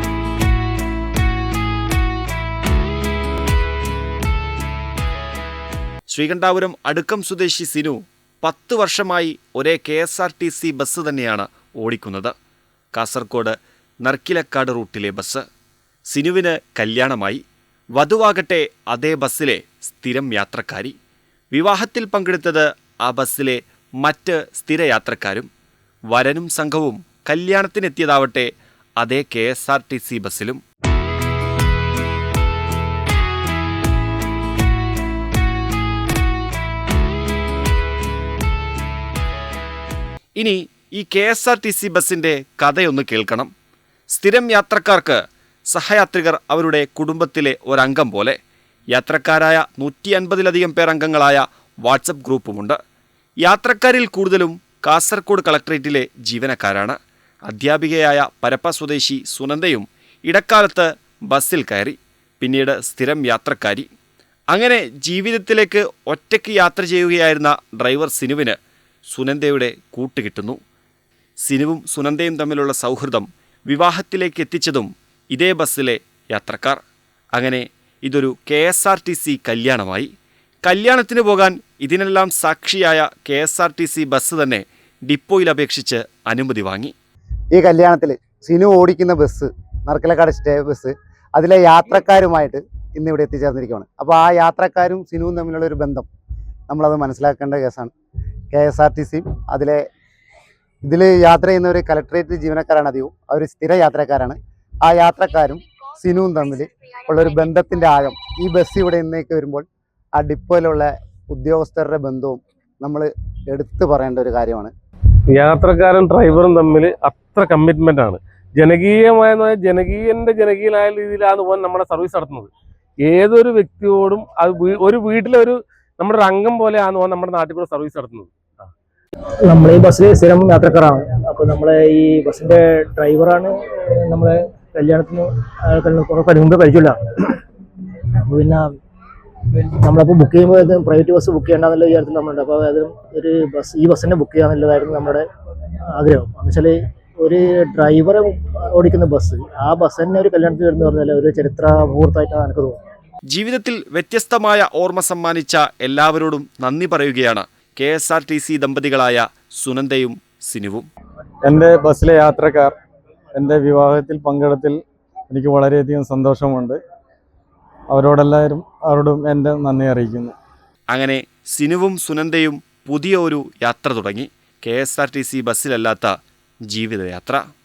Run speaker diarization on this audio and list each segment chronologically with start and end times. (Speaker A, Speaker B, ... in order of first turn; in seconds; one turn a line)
Speaker A: 6.1-12.3
Speaker A: 12.9-15.4
Speaker A: 16.1-17.4
Speaker A: 18.0-20.9
Speaker A: 21.5-25.5
Speaker A: 26.1-30.6
Speaker A: 40.4-43.5
Speaker A: 44.1-48.4
Speaker A: 48.9-52.8
Speaker A: 53.4-63.9
Speaker A: 64.5-70.6
Speaker A: 71.4-76.8
Speaker A: 77.3-80.1
Speaker A: 80.7-86.9
Speaker B: 87.5-96.1
Speaker B: 96.7-97.9
Speaker B: 98.5-99.8
Speaker B: 100.8-114.7
Speaker C: 115.3-122.5
Speaker C: 123.0-128.3
Speaker D: 129.4-138.8
Speaker D: 139.5-145.3
Speaker D: 145.9-152.8
Speaker A: 153.3-160.9
Speaker E: 161.4-162.8
Speaker E: 163.3-166.8
Speaker E: 167.9-170.4
Speaker A: 170.9-176.2
Speaker A: 176.7-177.4